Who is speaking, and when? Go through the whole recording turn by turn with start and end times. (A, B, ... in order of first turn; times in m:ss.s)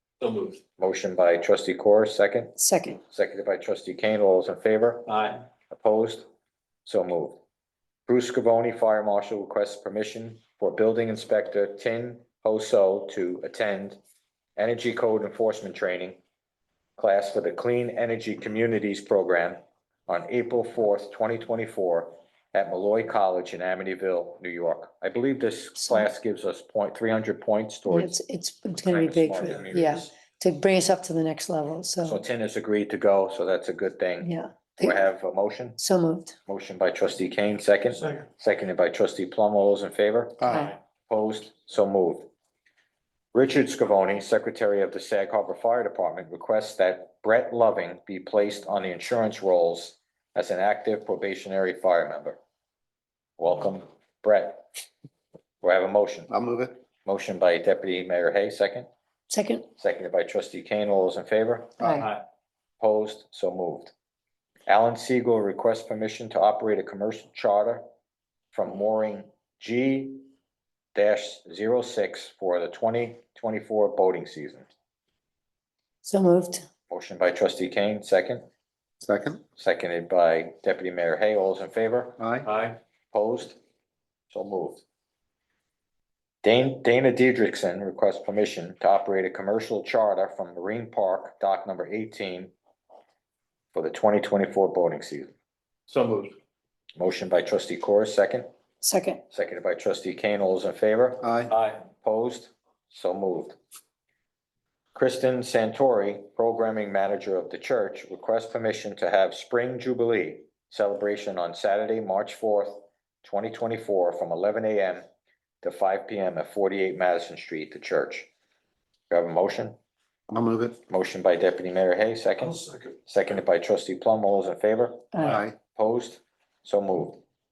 0:00.2-0:00.6 A
0:00.8-0:06.2 B
0:02.6-0:03.0 C
0:05.1-0:05.4 A
0:06.8-0:07.4 B
0:08.1-0:14.0 B
0:14.6-0:16.2 B
0:17.0-0:28.2 B
0:25.8-0:26.1 C
0:27.9-0:32.2 C
0:28.8-0:30.1 B
0:32.0-0:35.8 B
0:34.2-0:35.0 C
0:35.8-0:36.4 C
0:36.5-0:42.3 B
0:40.4-0:40.7 D
0:40.5-0:40.7 C
0:43.3-0:52.4 B
0:53.4-0:54.7 B
0:55.6-0:56.3 B
0:56.3-0:56.8 D
0:57.0-0:58.9 B
0:59.3-0:59.6 C
0:59.8-1:01.8 B
1:01.8-1:02.1 C
1:02.8-1:03.9 B
1:04.7-1:07.8 B
1:08.5-1:10.2 B
1:10.9-1:14.6 B
1:16.0-1:16.6 C
1:16.9-1:18.4 B
1:19.0-1:19.4 D
1:19.6-1:22.2 B
1:22.2-1:22.5 D
1:22.4-1:22.8 A
1:23.1-1:23.6 B
1:24.3-1:24.8 B
1:26.4-1:32.5 B
1:33.7-1:35.3 B
1:35.9-1:36.3 A
1:37.0-1:38.5 B
1:38.8-1:39.2 C
1:39.3-1:41.3 B
1:41.2-1:41.5 D
1:41.5-1:41.8 A
1:41.8-1:43.6 B
1:44.9-1:55.0 B
1:55.6-1:58.3 B
1:59.1-1:59.8 B
2:00.3-2:00.8 D
2:00.9-2:07.2 B
2:05.1-2:05.4 C
2:05.2-2:05.5 D